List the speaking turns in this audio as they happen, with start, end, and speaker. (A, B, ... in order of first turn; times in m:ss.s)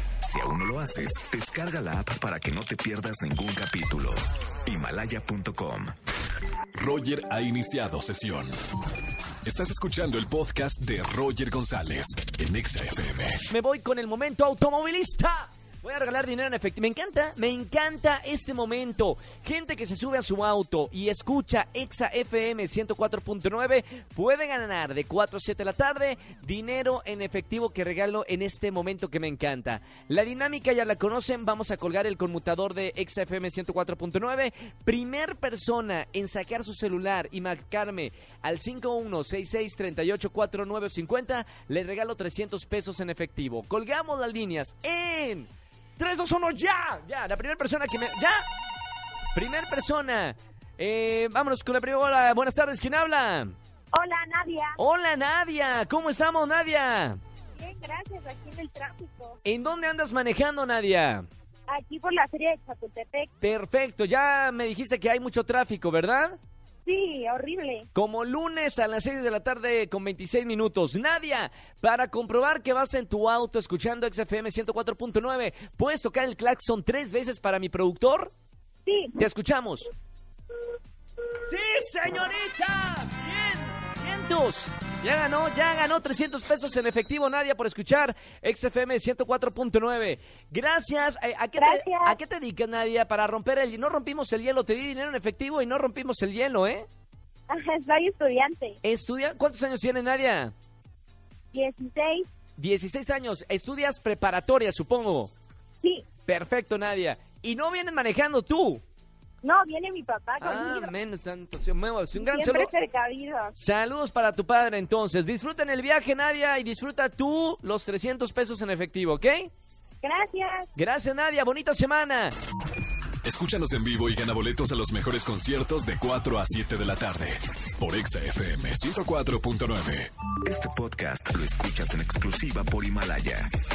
0:00.2-0:05.9 A
0:06.8-0:08.5 B
0:09.4-0:13.4 B
0:13.5-0:48.4 C
0:49.3-0:53.6 C
0:53.9-0:54.8 D
0:54.8-0:57.2 C
0:57.6-0:59.4 D
0:59.4-1:01.3 C
1:01.7-1:03.3 D
1:03.4-1:06.4 C
1:06.8-1:07.9 D
1:08.0-1:18.3 C
1:18.9-1:19.2 D
1:19.2-1:19.9 C
1:21.4-1:36.9 C
1:31.6-1:32.2 D
1:37.5-1:38.8 D
1:38.8-1:40.5 C
1:41.5-1:42.3 D
1:42.6-1:45.3 C
1:46.3-1:48.8 C
1:49.4-1:50.9 D
1:50.4-1:52.7 C
1:52.2-1:53.6 D
1:53.6-1:59.5 C
2:00.0-2:00.7 D
2:00.8-2:02.3 C
2:03.2-2:10.1 B
2:10.4-2:13.5 A